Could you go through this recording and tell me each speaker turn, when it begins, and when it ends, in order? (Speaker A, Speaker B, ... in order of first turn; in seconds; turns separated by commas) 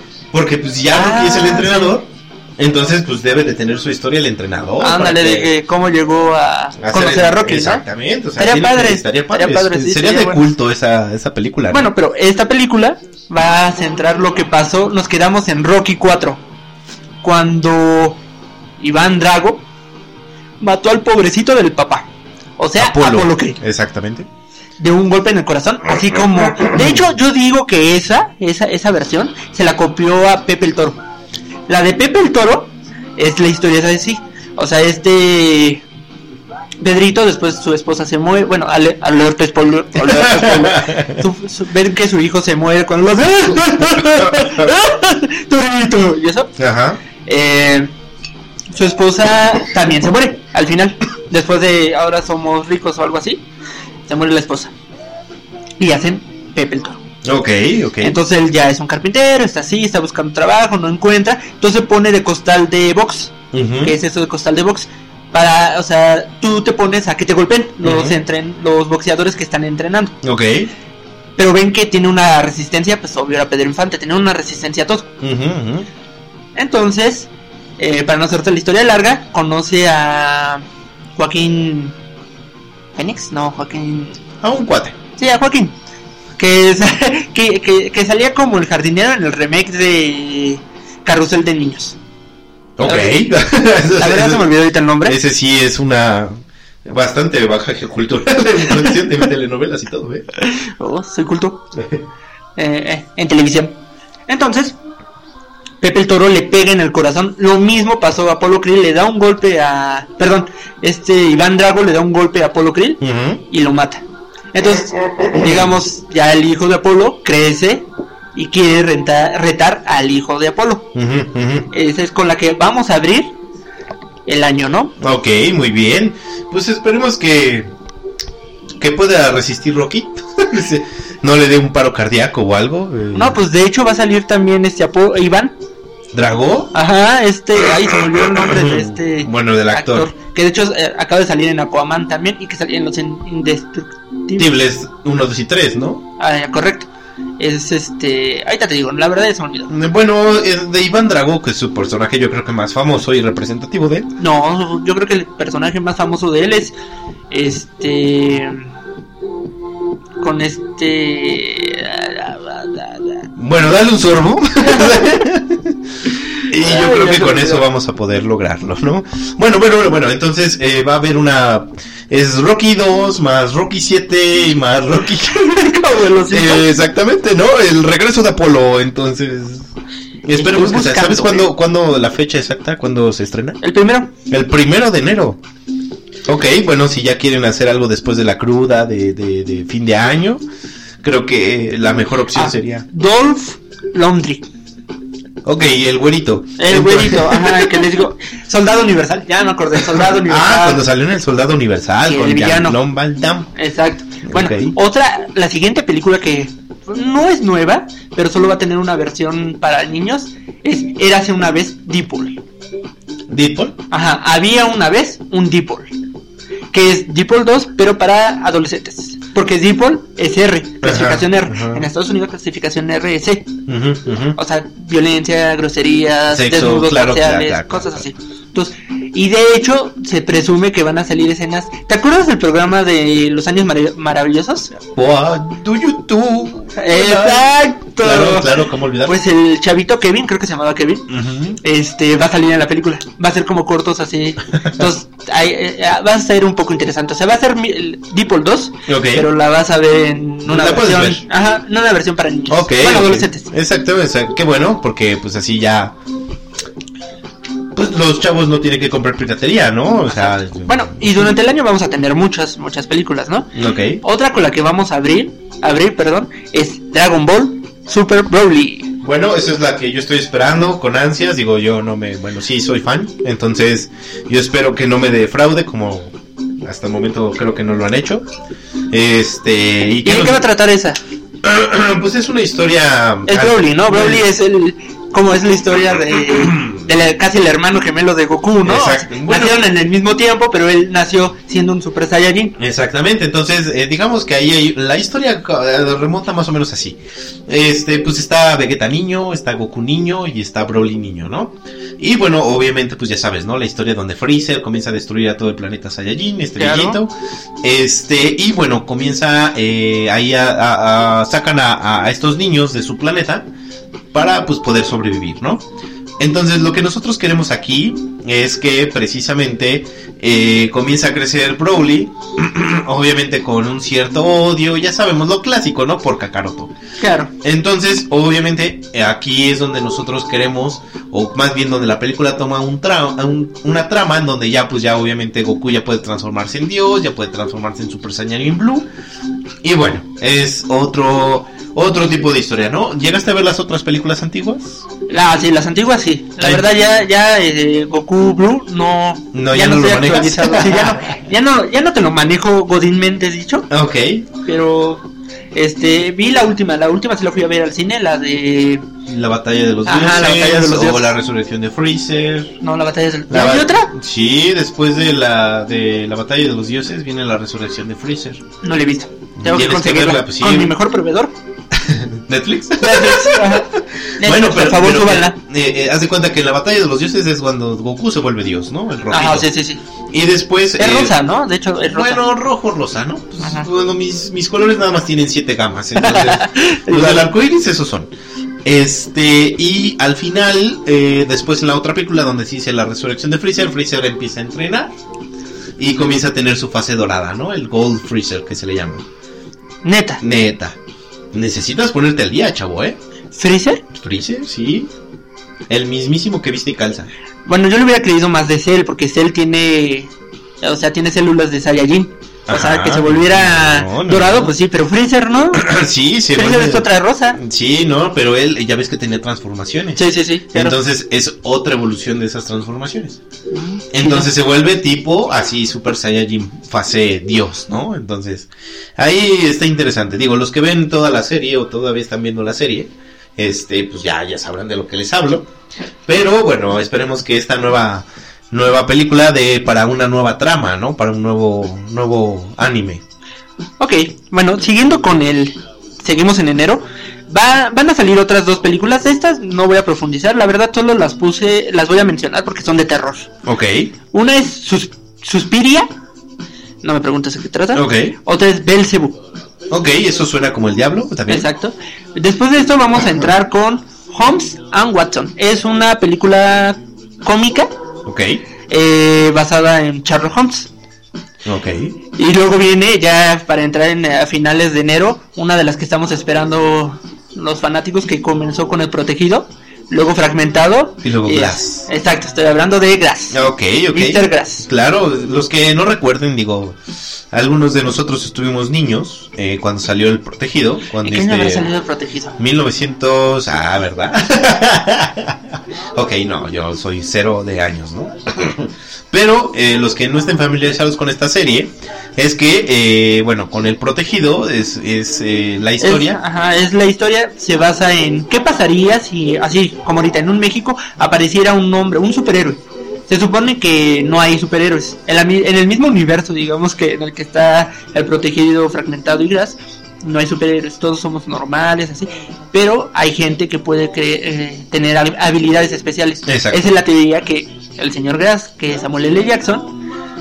Speaker A: 0.3-5.5, Speaker B: 0.9-2.0, Speaker B: 4.8-7.8, Speaker A: 6.8-11.9, Speaker B: 8.4-10.5, Speaker B: 11.7-16.4, Speaker B: 17.2-18.2, Speaker B: 18.8-19.7, Speaker B: 20.6-22.1, Speaker B: 22.6-23.6, Speaker A: 22.8-24.3, Speaker B: 24.8-31.0, Speaker A: 26.7-27.0, Speaker B: 31.7-35.8, Speaker B: 36.8-46.5, Speaker A: 40.0-41.2, Speaker A: 44.2-44.7, Speaker A: 46.6-47.0, Speaker B: 47.2-47.9, Speaker B: 48.7-53.4, Speaker B: 54.1-54.7, Speaker B: 55.8-57.0, Speaker A: 57.2-58.2, Speaker B: 58.0-70.2, Speaker A: 63.5-64.0, Speaker A: 67.8-68.2, Speaker A: 70.2-70.7, Speaker B: 71.4-75.1, Speaker A: 75.2-75.9, Speaker B: 76.6-80.6, Speaker B: 81.2-82.0, Speaker B: 83.0-84.2, Speaker A: 84.4-85.0, Speaker B: 85.2-85.8, Speaker B: 86.4-92.0, Speaker A: 92.8-94.5, Speaker B: 92.8-93.2, Speaker B: 94.0-95.2, Speaker A: 95.0-100.2, Speaker B: 100.4-101.7, Speaker B: 102.6-103.8, Speaker B: 104.3-104.8, Speaker B: 105.8-120.9, Speaker A: 113.0-113.4, Speaker A: 115.4-115.7, Speaker A: 121.0-121.7, Speaker B: 121.7-123.3, Speaker B: 124.3-125.0, Speaker A: 125.0-127.7, Speaker A: 128.8-133.4, Speaker B: 133.1-135.6, Speaker A: 136.1-136.7, Speaker B: 136.7-144.5, Speaker A: 138.2-140.1, Speaker A: 144.4-146.0, Speaker B: 146.2-149.7, Speaker A: 149.7-154.1, Speaker B: 154.2-156.8, Speaker B: 157.3-158.7, Speaker B: 160.2-163.2, Speaker A: 163.4-165.8, Speaker B: 164.6-165.1, Speaker B: 166.3-167.7, Speaker A: 166.5-175.5, Speaker B: 175.3-176.7, Speaker A: 176.3-179.7, Speaker A: 180.2-183.6, Speaker B: 180.3-181.5, Speaker B: 183.6-184.1, Speaker A: 184.3-185.4, Speaker A: 186.3-190.4, Speaker A: 191.0-192.9, Speaker B: 192.3-194.5, Speaker A: 195.4-197.9, Speaker B: 196.6-200.8, Speaker A: 200.0-203.5, Speaker B: 202.1-202.8, Speaker B: 203.6-212.4, Speaker A: 204.2-204.8, Speaker A: 213.3-213.8, Speaker B: 213.9-215.9, Speaker B: 216.7-223.6, Speaker A: 220.8-221.9, Speaker A: 223.7-224.4, Speaker B: 224.4-234.8, Speaker A: 226.3-228.1, Speaker A: 234.9-239.2, Speaker B: 236.8-238.5, Speaker B: 239.1-253.5, Speaker A: 241.1-241.6, Speaker A: 248.9-249.3, Speaker A: 250.5-251.2, Speaker A: 252.5-256.0, Speaker A: 257.7-261.2, Speaker B: 260.1-268.9, Speaker A: 263.5-264.0, Speaker A: 269.0-278.3, Speaker A: 278.9-280.5, Speaker B: 280.0-281.0, Speaker A: 281.4-284.2, Speaker B: 283.3-292.6, Speaker A: 286.4-286.8, Speaker A: 288.6-289.6, Speaker A: 292.6-313.5, Speaker B: 306.6-307.0, Speaker A: 314.1-315.7, Speaker A: 316.2-326.7, Speaker B: 327.0-327.3, Speaker A: 327.4-338.9, Speaker A: 339.6-344.9, Speaker B: 345.1-353.7, Speaker A: 346.4-346.7, Speaker A: 349.3-351.1, Speaker A: 353.7-354.3, Speaker B: 354.4-358.9, Speaker A: 359.1-362.6, Speaker B: 359.9-361.1, Speaker B: 362.6-363.9, Speaker A: 363.3-368.4, Speaker B: 368.6-371.3, Speaker A: 369.4-370.8, Speaker A: 371.7-379.5, Speaker B: 372.8-375.4, Speaker B: 379.1-379.8, Speaker A: 380.1-381.2, Speaker B: 380.8-382.2, Speaker A: 381.9-388.1, Speaker B: 383.4-383.7, Speaker B: 386.0-387.3, Speaker A: 388.6-394.9, Speaker A: 395.8-399.1, Speaker B: 399.8-400.2, Speaker A: 400.2-400.8, Speaker A: 401.3-403.0, Speaker B: 403.3-403.8, Speaker A: 404.0-404.9, Speaker A: 405.7-407.1, Speaker B: 407.5-415.7, Speaker A: 412.5-414.6, Speaker A: 415.5-420.0, Speaker B: 416.3-417.4, Speaker B: 420.0-420.8, Speaker A: 420.5-423.2, Speaker B: 423.5-424.3, Speaker A: 423.9-435.5, Speaker A: 436.1-443.0, Speaker B: 443.8-453.3, Speaker A: 453.4-453.9, Speaker B: 454.1-455.9, Speaker B: 456.8-459.2, Speaker A: 457.7-458.2, Speaker A: 459.7-461.5, Speaker B: 461.3-467.7, Speaker A: 468.1-468.4, Speaker B: 468.7-470.7, Speaker A: 471.4-472.0, Speaker B: 472.2-484.7, Speaker A: 481.0-481.9, Speaker A: 483.3-491.7, Speaker B: 491.0-492.4, Speaker A: 492.4-506.2, Speaker B: 505.8-529.8, Speaker A: 526.3-526.6